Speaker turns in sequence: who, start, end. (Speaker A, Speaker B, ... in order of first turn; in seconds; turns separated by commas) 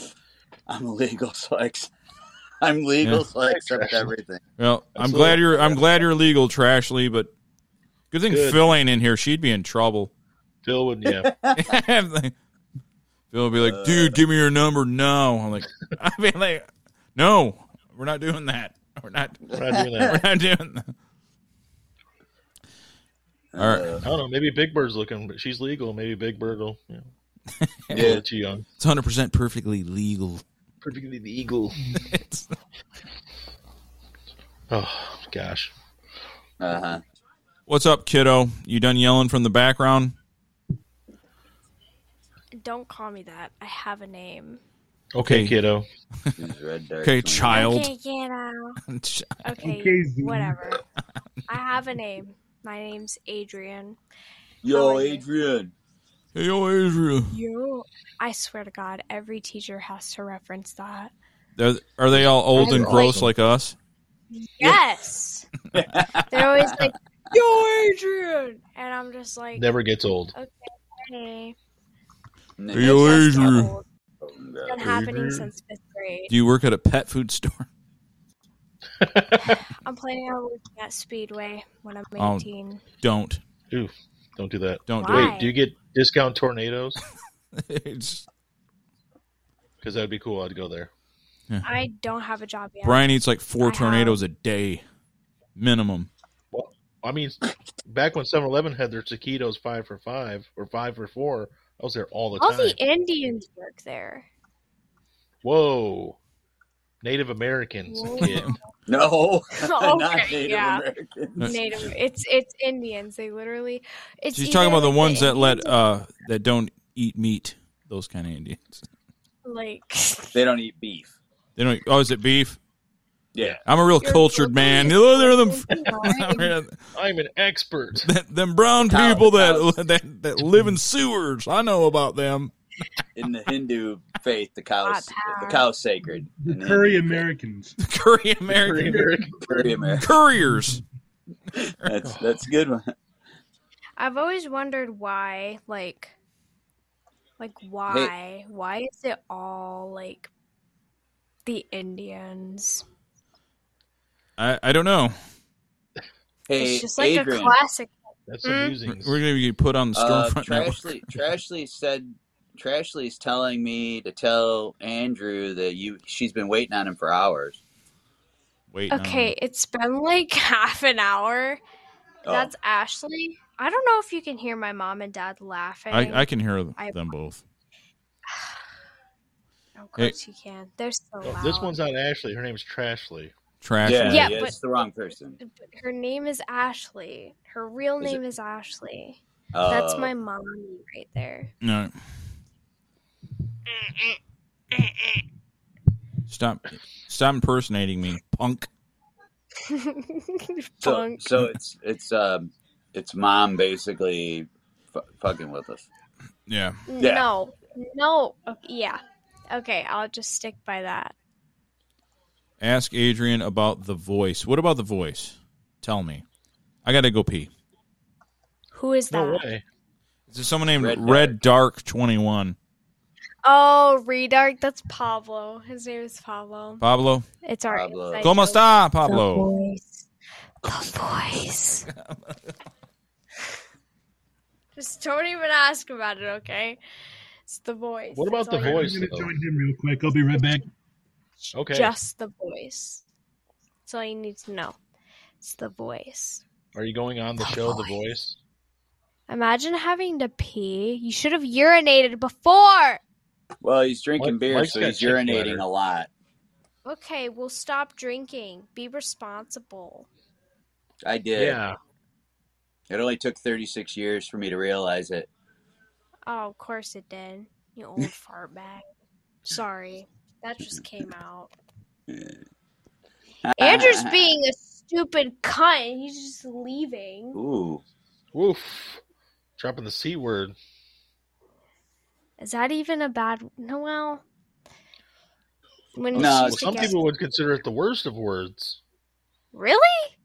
Speaker A: 0.7-1.9, Speaker A: 2.6-4.4, Speaker B: 3.5-4.1, Speaker C: 4.6-7.3, Speaker B: 4.9-5.8, Speaker C: 8.1-10.1, Speaker B: 8.3-8.7, Speaker B: 10.6-11.3, Speaker A: 11.2-11.6, Speaker C: 11.5-12.3, Speaker C: 13.3-19.4, Speaker A: 13.6-14.2, Speaker A: 19.5-20.1, Speaker B: 19.5-20.2, Speaker C: 20.0-20.9, Speaker A: 23.5-24.1, Speaker C: 23.6-23.9, Speaker B: 24.0-27.1, Speaker C: 27.6-28.1, Speaker A: 27.9-28.2, Speaker B: 27.9-28.6, Speaker C: 28.8-30.4, Speaker B: 30.8-31.8, Speaker C: 31.9-32.5, Speaker B: 34.7-35.7, Speaker A: 36.6-37.0, Speaker C: 37.7-40.1, Speaker D: 42.6-44.6, Speaker B: 45.1-45.9, Speaker C: 45.2-45.5, Speaker A: 46.4-47.7, Speaker C: 47.0-47.9, Speaker D: 47.5-48.8, Speaker C: 48.9-49.4, Speaker D: 49.4-50.8, Speaker E: 49.6-50.6, Speaker D: 51.5-54.0, Speaker A: 54.6-55.7, Speaker D: 54.7-55.2, Speaker C: 56.3-57.4, Speaker D: 57.3-61.1, Speaker C: 61.6-63.8, Speaker B: 62.1-63.3, Speaker D: 62.6-63.2, Speaker D: 64.3-65.5, Speaker A: 65.7-66.8, Speaker D: 66.3-69.7, Speaker B: 69.5-70.3, Speaker D: 70.3-71.5, Speaker A: 72.6-73.7, Speaker C: 72.7-73.7, Speaker D: 72.8-73.8, Speaker A: 74.2-75.0, Speaker D: 74.6-76.3, Speaker B: 74.8-75.4, Speaker C: 76.3-77.7, Speaker B: 79.0-79.6, Speaker D: 79.5-82.8, Speaker C: 82.2-82.5, Speaker C: 83.0-83.4, Speaker B: 83.7-87.0, Speaker C: 84.9-85.4, Speaker D: 85.0-85.5, Speaker C: 87.5-88.2, Speaker B: 89.8-90.9, Speaker D: 91.6-93.1, Speaker C: 92.8-94.8, Speaker D: 93.6-94.2, Speaker C: 95.5-96.1, Speaker B: 96.5-102.8, Speaker D: 102.4-104.2, Speaker B: 105.4-106.2, Speaker B: 107.0-108.5, Speaker D: 107.9-108.6, Speaker C: 108.2-108.5, Speaker A: 108.9-111.5, Speaker D: 109.5-110.8, Speaker D: 111.4-115.7, Speaker C: 114.3-118.9, Speaker D: 119.4-120.3, Speaker A: 120.3-121.1, Speaker C: 121.6-122.6, Speaker A: 123.3-123.6, Speaker C: 123.7-126.8, Speaker D: 124.0-126.5, Speaker B: 126.9-128.1, Speaker C: 128.0-132.5, Speaker A: 128.8-129.8, Speaker A: 133.1-137.2, Speaker D: 134.8-135.7, Speaker E: 136.4-137.8, Speaker C: 137.8-139.1, Speaker B: 138.5-140.0, Speaker A: 139.5-140.0, Speaker C: 140.0-140.8, Speaker A: 141.5-142.9, Speaker B: 142.0-142.4, Speaker D: 144.0-146.1, Speaker D: 147.4-150.3, Speaker D: 151.4-152.8, Speaker C: 154.4-155.1, Speaker A: 156.5-157.5, Speaker D: 156.5-158.7, Speaker B: 158.3-159.2, Speaker C: 158.9-160.8, Speaker A: 159.9-167.6, Speaker C: 168.7-169.3, Speaker D: 168.9-171.6, Speaker A: 172.2-172.5, Speaker D: 172.2-177.1, Speaker C: 175.9-177.4, Speaker D: 179.8-181.8, Speaker B: 181.2-183.3, Speaker C: 183.6-184.4, Speaker A: 183.8-185.4, Speaker D: 184.1-184.6, Speaker D: 185.4-191.5, Speaker A: 189.5-190.1, Speaker C: 191.6-191.9, Speaker C: 196.3-198.7, Speaker D: 199.7-201.3, Speaker A: 200.8-205.8, Speaker C: 206.5-206.8, Speaker D: 206.9-211.1, Speaker A: 207.0-207.2, Speaker C: 212.6-216.2, Speaker C: 216.8-217.5, Speaker D: 218.7-219.4, Speaker B: 219.1-219.6, Speaker C: 220.3-222.6, Speaker A: 220.8-221.3, Speaker D: 223.4-226.8, Speaker C: 226.8-227.2, Speaker D: 227.4-230.1, Speaker A: 227.7-228.3, Speaker C: 228.2-229.5, Speaker D: 230.6-231.8, Speaker C: 231.9-232.5, Speaker D: 234.8-236.8, Speaker D: 237.5-238.9, Speaker B: 238.1-239.3, Speaker E: 238.6-240.6, Speaker D: 241.4-243.0, Speaker B: 241.5-241.9, Speaker D: 243.8-244.8, Speaker D: 245.4-246.4, Speaker B: 246.7-248.4, Speaker D: 247.4-247.9, Speaker D: 249.3-253.0, Speaker A: 253.6-256.1, Speaker B: 254.2-255.6, Speaker D: 256.8-260.1, Speaker A: 261.0-261.6, Speaker B: 261.4-261.8, Speaker A: 262.9-265.3, Speaker D: 266.3-268.8, Speaker D: 269.4-271.5, Speaker A: 272.1-272.4, Speaker A: 273.4-274.2, Speaker D: 273.6-277.4, Speaker A: 277.3-277.8, Speaker B: 278.3-279.0, Speaker B: 279.6-280.5, Speaker D: 282.4-284.2, Speaker D: 285.9-287.0, Speaker B: 286.1-288.8, Speaker A: 286.1-287.0, Speaker D: 289.5-290.1